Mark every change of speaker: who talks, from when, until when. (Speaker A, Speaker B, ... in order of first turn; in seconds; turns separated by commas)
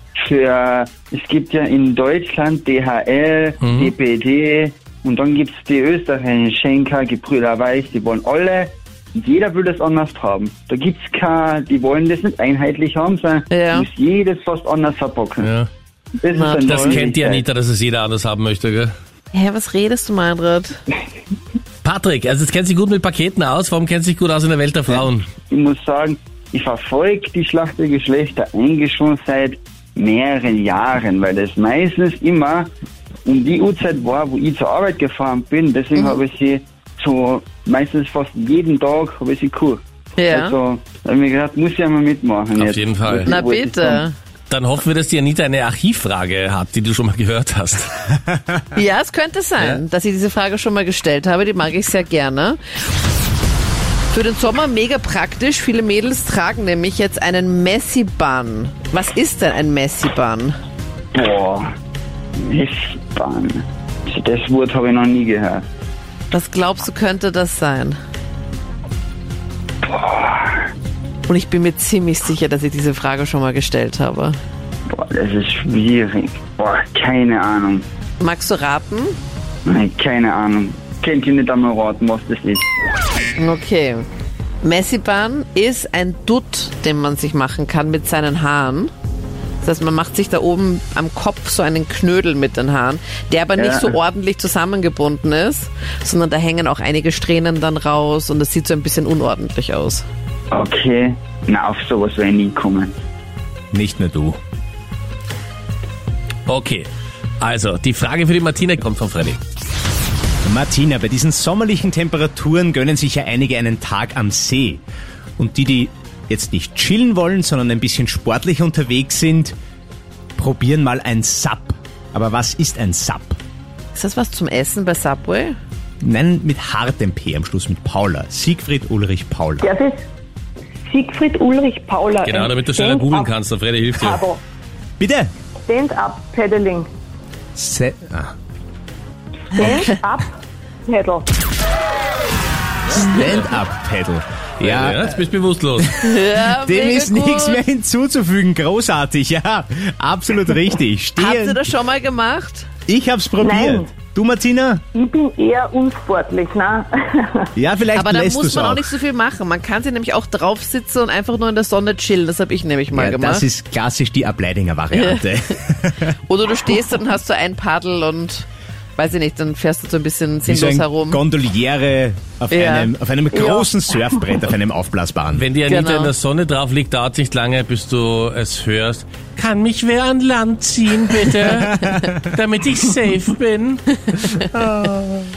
Speaker A: 0.2-15.5, Speaker B: 3.6-3.9, Speaker C: 13.5-13.9, Speaker B: 15.4-15.7, Speaker A: 16.2-17.4, Speaker C: 16.3-17.0, Speaker B: 16.6-18.9, Speaker C: 19.3-20.8, Speaker B: 21.8-25.2, Speaker A: 25.5-32.7, Speaker A: 33.2-44.0, Speaker C: 40.2-40.5, Speaker B: 42.5-43.3, Speaker C: 43.2-44.1, Speaker B: 44.5-47.9, Speaker C: 48.7-52.6, Speaker C: 54.1-60.5, Speaker A: 61.1-61.7, Speaker A: 62.5-65.6, Speaker C: 66.3-68.0, Speaker A: 69.8-70.7, Speaker C: 71.3-74.4, Speaker A: 74.9-77.8, Speaker C: 78.2-79.1, Speaker A: 79.7-82.7, Speaker C: 83.4-84.0, Speaker C: 84.6-88.9, Speaker C: 89.6-100.0, Speaker A: 93.6-93.9, Speaker A: 100.5-103.0, Speaker D: 103.7-104.4, Speaker B: 106.5-106.9, Speaker B: 107.4-109.4, Speaker D: 110.4-114.8, Speaker D: 115.4-119.5, Speaker D: 120.4-123.4, Speaker C: 123.9-125.5, Speaker D: 126.0-129.7, Speaker E: 129.6-130.0, Speaker E: 130.9-133.3, Speaker B: 132.2-134.2, Speaker E: 133.9-134.4, Speaker D: 135.0-135.3, Speaker E: 135.7-136.9, Speaker D: 137.6-138.3, Speaker E: 139.5-141.3, Speaker D: 142.9-145.1, Speaker B: 143.1-143.5, Speaker B: 144.6-146.0, Speaker C: 146.0-147.6, Speaker D: 146.6-151.6, Speaker C: 151.2-152.7, Speaker D: 152.9-154.8, Speaker E: 153.4-153.9, Speaker E: 154.9-157.5, Speaker D: 157.6-158.9, Speaker C: 157.9-163.4, Speaker D: 162.9-166.2, Speaker C: 164.9-165.4, Speaker C: 166.3-171.2, Speaker D: 170.4-175.4, Speaker C: 172.5-172.9, Speaker E: 173.3-174.2, Speaker B: 175.3-184.9, Speaker C: 175.7-176.1, Speaker D: 181.5-182.2